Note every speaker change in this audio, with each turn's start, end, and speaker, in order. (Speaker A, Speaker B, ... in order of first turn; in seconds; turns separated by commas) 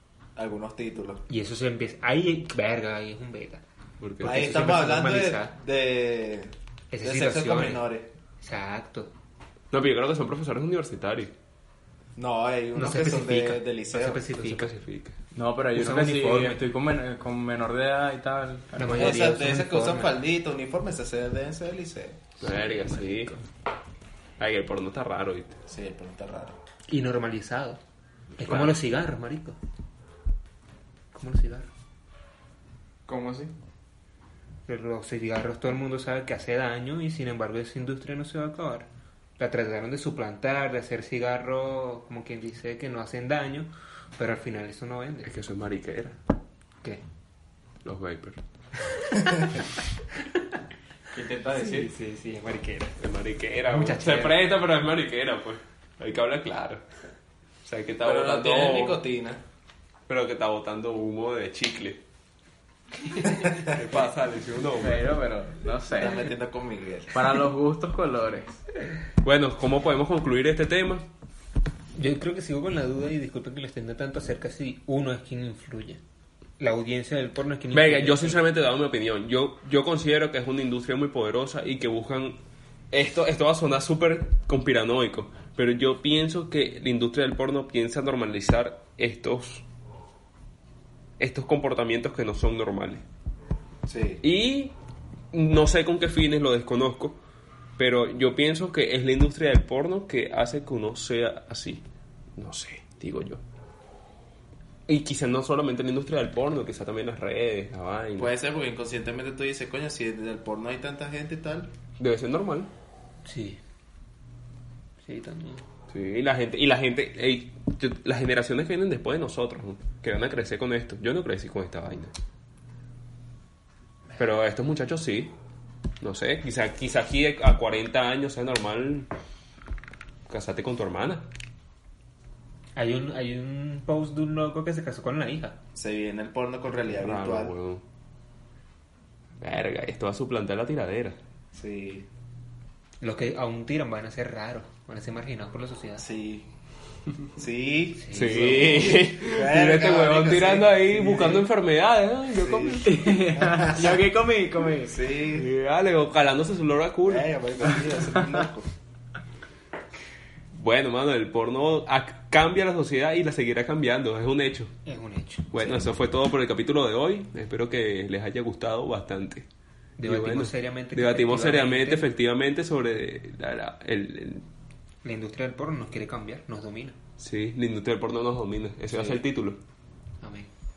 Speaker A: 0.3-1.2, Speaker B: 1.3-3.6, Speaker C: 4.0-4.7, Speaker B: 4.2-5.5, Speaker A: 4.2-6.5, Speaker B: 6.9-7.9, Speaker A: 7.0-8.1, Speaker B: 8.4-9.1, Speaker C: 9.7-11.3, Speaker A: 12.2-14.2, Speaker B: 12.7-14.7, Speaker C: 14.3-15.2, Speaker D: 15.3-18.9, Speaker B: 15.7-16.6, Speaker B: 18.7-20.1, Speaker A: 18.8-22.3, Speaker C: 22.4-23.3, Speaker B: 22.4-23.4, Speaker C: 24.4-25.6, Speaker A: 25.7-26.6, Speaker B: 26.9-27.8, Speaker B: 28.4-29.6, Speaker C: 28.5-28.7, Speaker B: 31.1-31.7, Speaker D: 33.1-33.5, Speaker B: 34.7-38.9, Speaker B: 39.4-45.3, Speaker C: 45.2-46.2, Speaker C: 47.8-48.4, Speaker D: 51.1-51.9, Speaker B: 51.5-53.0, Speaker C: 53.0-56.8, Speaker B: 53.7-54.4, Speaker C: 57.6-59.0, Speaker A: 58.0-59.4, Speaker C: 60.1-62.0, Speaker C: 63.2-65.2, Speaker D: 64.8-66.3, Speaker A: 65.9-67.1, Speaker D: 67.1-68.6, Speaker C: 69.2-71.0, Speaker B: 72.0-76.0, Speaker B: 76.6-78.4, Speaker C: 77.7-82.4, Speaker C: 82.9-89.6, Speaker C: 91.2-93.0, Speaker A: 93.9-94.2, Speaker C: 94.2-94.7, Speaker C: 95.3-97.2, Speaker C: 97.8-101.8, Speaker C: 102.4-103.4, Speaker C: 104.9-108.3, Speaker A: 108.2-111.7, Speaker C: 112.0-112.7, Speaker B: 113.2-113.6, Speaker B: 115.0-115.6, Speaker C: 115.9-122.1, Speaker C: 124.2-125.3, Speaker C: 126.0-129.1, Speaker C: 130.3-131.2, Speaker B: 132.8-135.6, Speaker A: 135.7-137.5, Speaker C: 136.9-137.8, Speaker C: 139.4-141.2, Speaker A: 141.5-142.1, Speaker B: 143.0-146.0, Speaker A: 146.0-146.5, Speaker A: 147.3-151.5, Speaker B: 148.0-148.8, Speaker C: 148.1-153.0, Speaker A: 152.4-154.1, Speaker D: 152.8-154.9, Speaker A: 154.8-155.5, Speaker C: 155.3-157.3, Speaker A: 157.1-158.7, Speaker C: 160.5-164.7, Speaker B: 164.8-165.9, Speaker C: 165.5-169.4, Speaker B: 170.0-172.1, Speaker C: 170.0-174.4, Speaker B: 175.0-176.9, Speaker C: 177.2-179.6, Speaker B: 178.9-179.2, Speaker B: 180.2-180.5